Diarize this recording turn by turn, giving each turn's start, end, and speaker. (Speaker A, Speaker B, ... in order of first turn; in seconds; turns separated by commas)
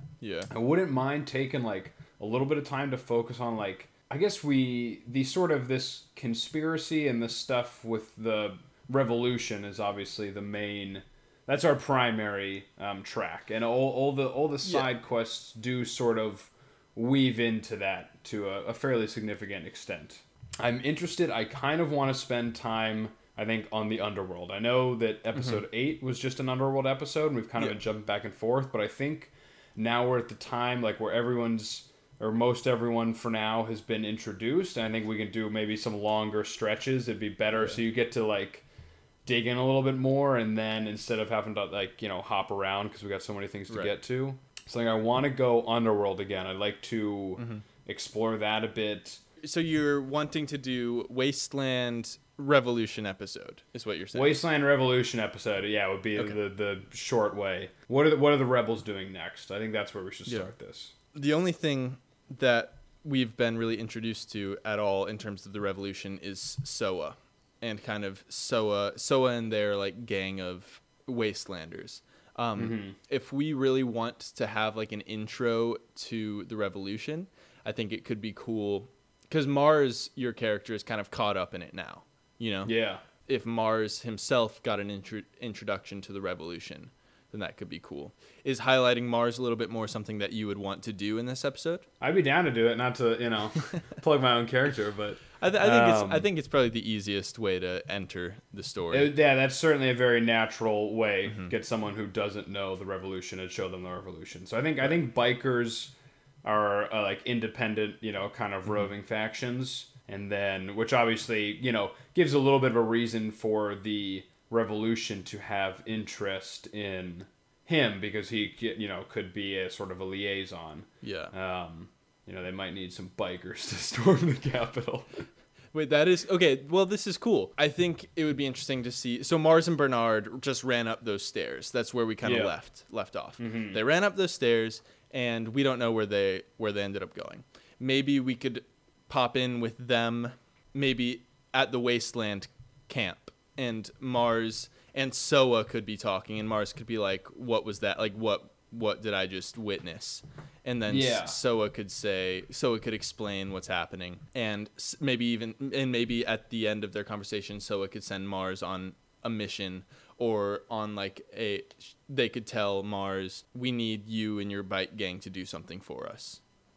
Speaker A: 0.2-0.5, Speaker B: 0.5-38.6, Speaker A: 25.3-25.6, Speaker A: 37.5-37.8, Speaker B: 39.2-49.2, Speaker A: 43.7-43.9, Speaker A: 47.4-47.6, Speaker A: 49.4-54.4, Speaker B: 54.1-60.9, Speaker A: 61.1-91.8, Speaker B: 72.6-73.0, Speaker B: 82.7-83.0, Speaker B: 92.0-96.3, Speaker A: 95.4-99.1, Speaker B: 98.9-125.3, Speaker A: 101.3-101.5, Speaker A: 121.0-121.3, Speaker A: 125.7-166.4, Speaker B: 132.2-132.6, Speaker B: 133.4-133.8, Speaker B: 150.9-151.4